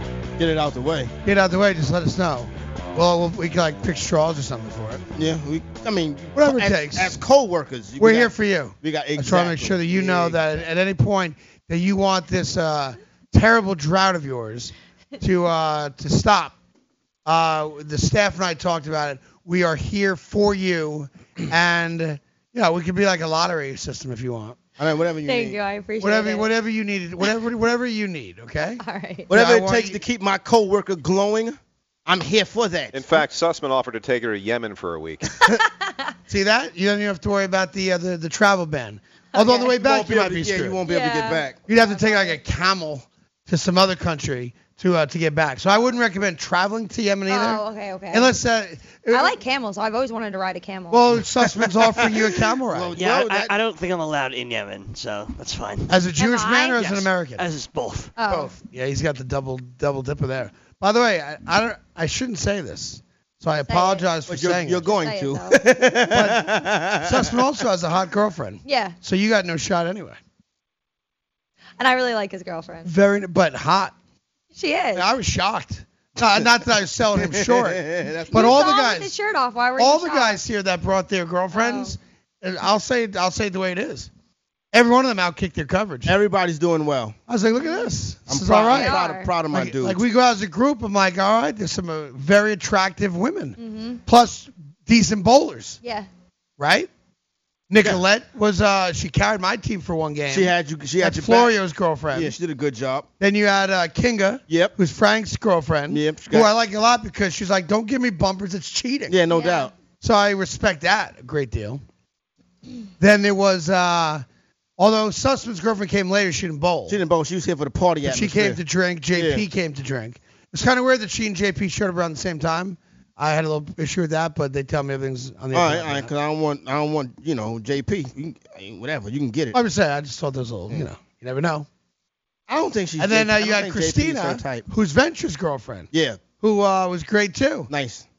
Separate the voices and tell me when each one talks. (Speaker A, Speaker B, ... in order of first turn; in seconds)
Speaker A: 0.4-1.1, 5.2-10.6, 24.8-25.6, 29.3-33.2, 39.7-41.6, 51.8-53.5, 64.3-67.3, 77.2-78.7, 86.0-87.2, 88.3-90.0, 100.3-101.5, 102.1-103.1, 104.5-104.7, 105.9-106.5, 109.1-109.7, 116.9-118.6, 119.1-119.4, 125.5-129.6, 132.5-134.7, 135.9-136.2, 137.7-138.0
Speaker B: 1.2-5.0, 6.3-7.2, 8.0-16.5, 17.2-24.6, 26.0-30.0, 36.3-40.8, 41.7-49.3, 50.9-53.0, 55.9-57.4, 58.2-64.8, 66.1-70.2, 72.8-73.9, 74.9-79.1, 79.8-84.1, 84.7-86.1, 87.3-89.0, 89.5-95.8, 96.6-96.9, 97.7-102.3, 103.2-109.2, 110.0-111.8, 113.0-114.2, 114.8-117.0, 118.0-126.1, 129.5-131.7, 133.0-137.7
Speaker C: 25.2-26.5, 28.8-29.3, 35.5-36.1, 39.3-39.7, 40.8-42.4, 47.3-48.3, 49.1-51.1, 56.2-56.9, 58.1-58.5, 63.7-64.1, 64.9-65.6, 68.6-69.0, 71.8-72.9, 74.5-75.1, 78.3-80.4, 81.5-81.9, 87.6-87.8, 88.7-89.3, 93.6-94.0, 95.8-96.1, 109.3-109.7
Speaker D: 32.9-35.2
Speaker E: 52.9-56.0, 56.8-58.1